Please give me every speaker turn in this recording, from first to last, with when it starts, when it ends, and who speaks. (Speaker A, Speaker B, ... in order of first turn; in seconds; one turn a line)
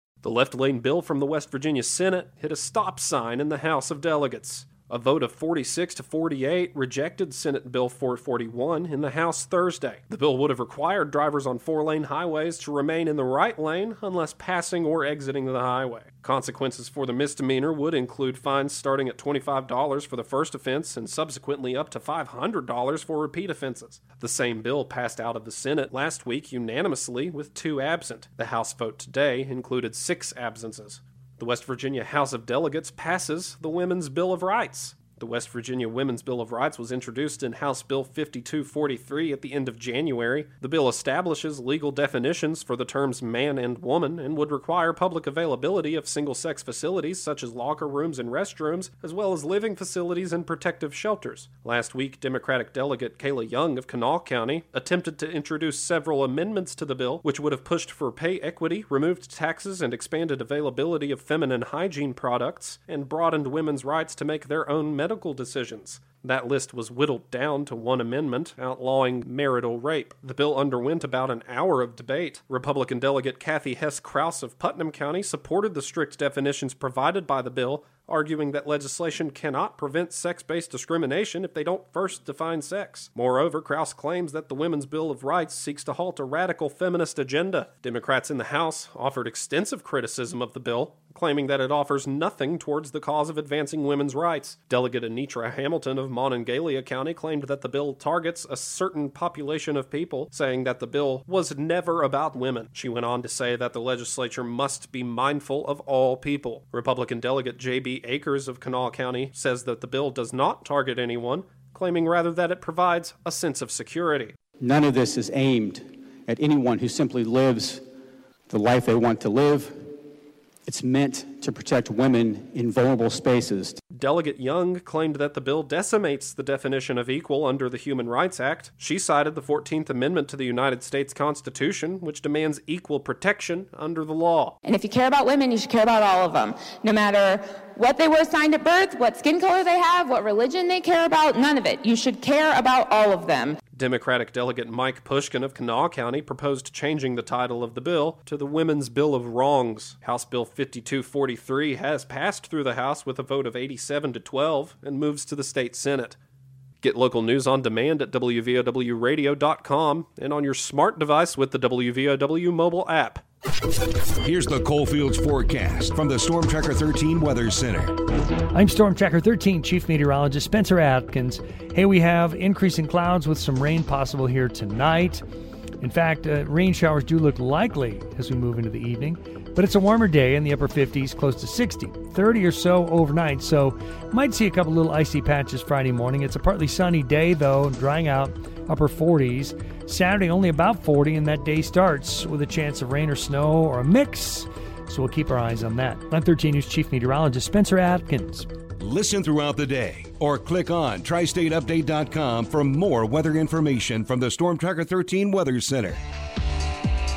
Speaker A: 0.2-114.3
Speaker B: 114.6-117.8
Speaker B: 118.5-119.9
Speaker B: 120.7-123.8
Speaker A: 123.9-134.6
Speaker C: 134.6-143.6
Speaker A: 143.7-156.2
Speaker A: 156.8-163.2
Speaker D: 164.2-168.0
Speaker E: 168.5-175.2
Speaker E: 175.8-198.5
Speaker D: 198.8-206.0